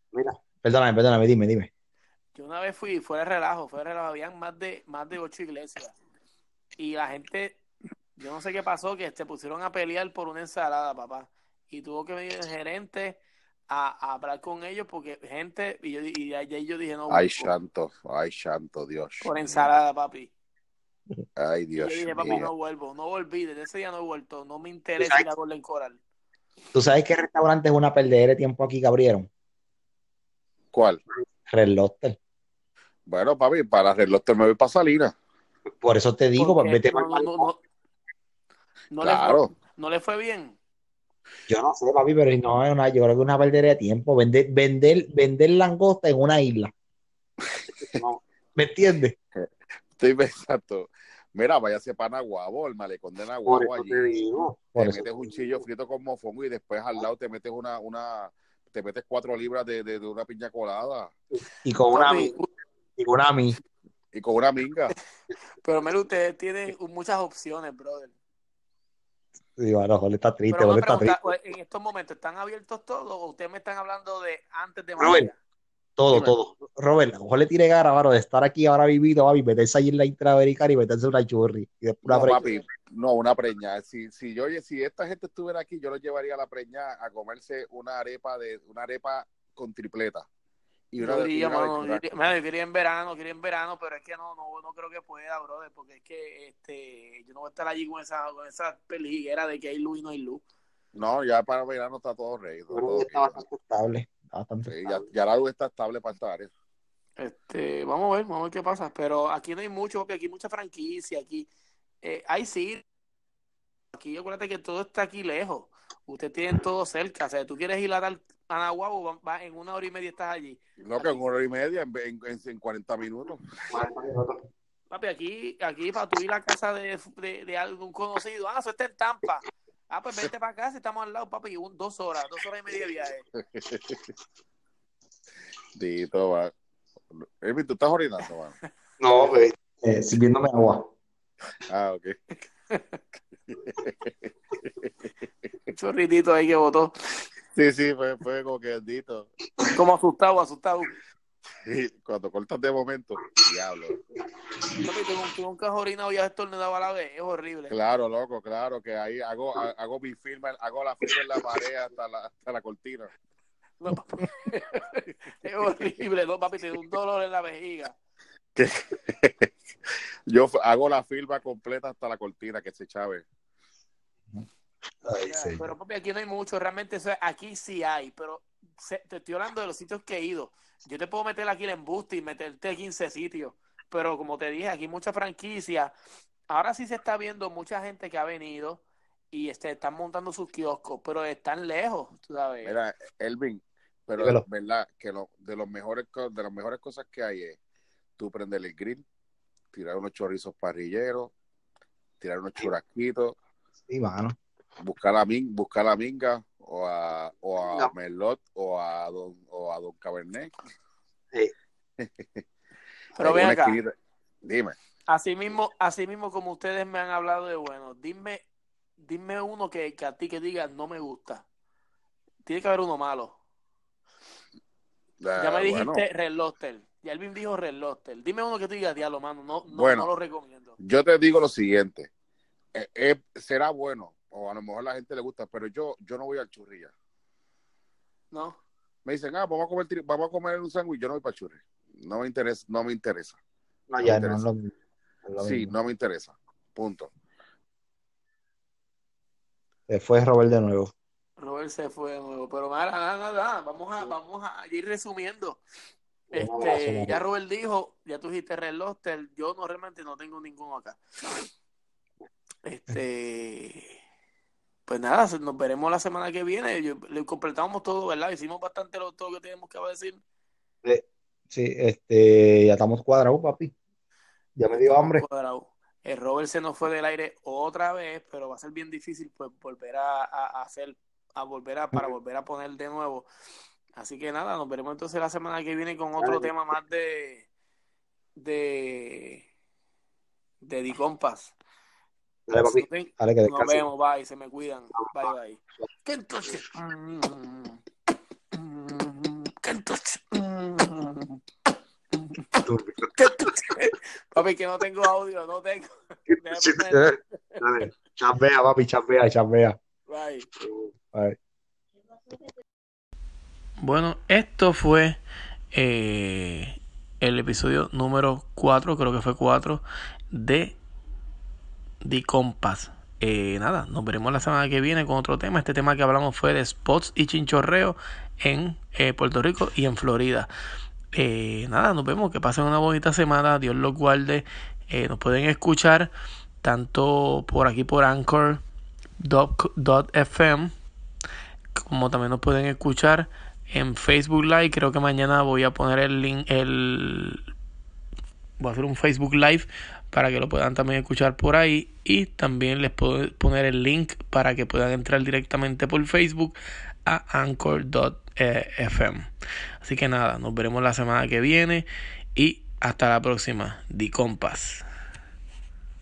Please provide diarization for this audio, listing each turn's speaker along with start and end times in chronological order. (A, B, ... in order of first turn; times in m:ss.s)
0:00.1-0:01.7 A
0:02.3-0:06.0 B
0:06.8-0:07.6 B
0:08.2-0:17.5 B
0:17.1-0:19.7 C
0:19.2-0:20.3 B
0:21.4-0:22.5 C
0:21.8-0:26.0 B
0:25.0-0:25.3 A
0:26.7-0:29.3 A
0:30.7-0:31.0 C
0:31.4-0:32.2 A
0:33.1-0:35.1 C
0:35.8-0:37.5 A
0:36.4-0:37.6 B
0:38.9-0:40.6 B
0:39.0-0:39.5 C
0:41.5-0:46.7 A
0:47.6-0:48.0 C
0:47.8-0:49.2 A
0:49.4-1:01.1 C
0:53.4-0:55.5 A
1:01.6-1:02.4 A
1:01.9-1:02.5 B
1:03.0-1:03.6 A
1:04.1-1:04.9 C
1:05.6-1:08.1 B
1:09.6-1:11.3 A
1:10.5-1:15.4 B
1:15.0-1:15.3 A
1:16.0-1:22.4 A
1:22.0-1:30.2 C
1:22.2-1:22.6 B
1:30.9-1:32.2 C
1:31.0-1:40.4 B
1:40.9-1:43.4 C
1:42.7-1:45.1 A
1:44.6-1:46.5 C
1:47.2-1:51.5 B
1:52.0-1:52.8 B
1:53.9-2:01.3 B
2:00.8-2:03.4 C
2:03.7-2:04.4 A
2:04.9-2:13.2 B
2:13.4-2:14.1 C
2:15.8-2:16.5 C
2:17.1-2:18.6 C
2:19.0-2:20.9 A
2:21.7-2:22.2 C
2:22.7-2:23.0 B
2:23.5-2:24.9 C
2:25.7-2:26.9 B
2:27.5-2:29.3 C
2:29.7-2:31.0 B
2:31.6-2:34.0 C
2:34.8-2:37.7 B
2:37.7-2:43.1 C
2:43.8-2:48.0 B
2:48.6-2:49.5 C
2:50.3-2:53.2 C
2:55.0-2:55.6 A
2:55.2-3:05.9 B
3:06.5-3:12.8 B
3:12.6-3:17.6 C
3:14.2-3:14.4 A
3:18.2-3:19.0 C
3:19.7-3:21.3 C
3:22.2-3:23.3 C
3:23.9-3:24.4 A
3:24.8-3:30.5 C
3:32.0-3:32.4 C
3:33.2-3:33.8 B
3:33.2-3:33.9 C
3:34.4-3:34.7 C
3:35.1-3:38.4 B
3:39.0-3:41.4 B
3:42.4-3:43.4 B
3:45.2-3:46.0 C
3:45.4-3:50.8 B
3:49.7-3:50.1 C
3:50.8-3:52.1 C
3:52.7-3:56.9 C
3:58.3-3:58.6 B
3:59.0-4:03.4 C
4:03.9-4:04.7 A
4:04.0-4:04.4 C
4:05.2-4:05.7 A
4:05.4-4:07.1 C
4:09.9-4:10.9 A
4:11.4-4:15.6 B
4:16.3-4:17.2 A
4:16.3-4:21.4 B
4:22.6-4:24.0 B
4:24.9-4:30.2 B
4:30.8-4:33.7 A
4:34.6-4:35.2 A
4:34.8-4:43.3 B
4:44.0-4:47.5 B
4:46.2-4:46.5 A
4:48.4-4:49.4 B
4:50.6-4:51.5 B
4:52.5-4:53.8 A
4:52.5-4:57.8 B
4:55.0-4:55.3 A
4:58.5-5:01.4 B
5:02.1-5:02.6 B
5:02.6-5:03.5 A
5:03.2-5:07.6 B
5:06.3-5:09.8 A
5:10.0-5:10.5 B
5:10.6-5:11.4 A
5:13.8-5:15.2 B
5:15.7-5:20.8 B
5:22.0-5:30.5 B
5:31.1-5:36.1 B
5:36.6-5:38.6 B
5:39.2-5:40.7 B
5:41.7-5:47.5 B
5:48.6-5:59.3 B
5:59.8-6:04.8 B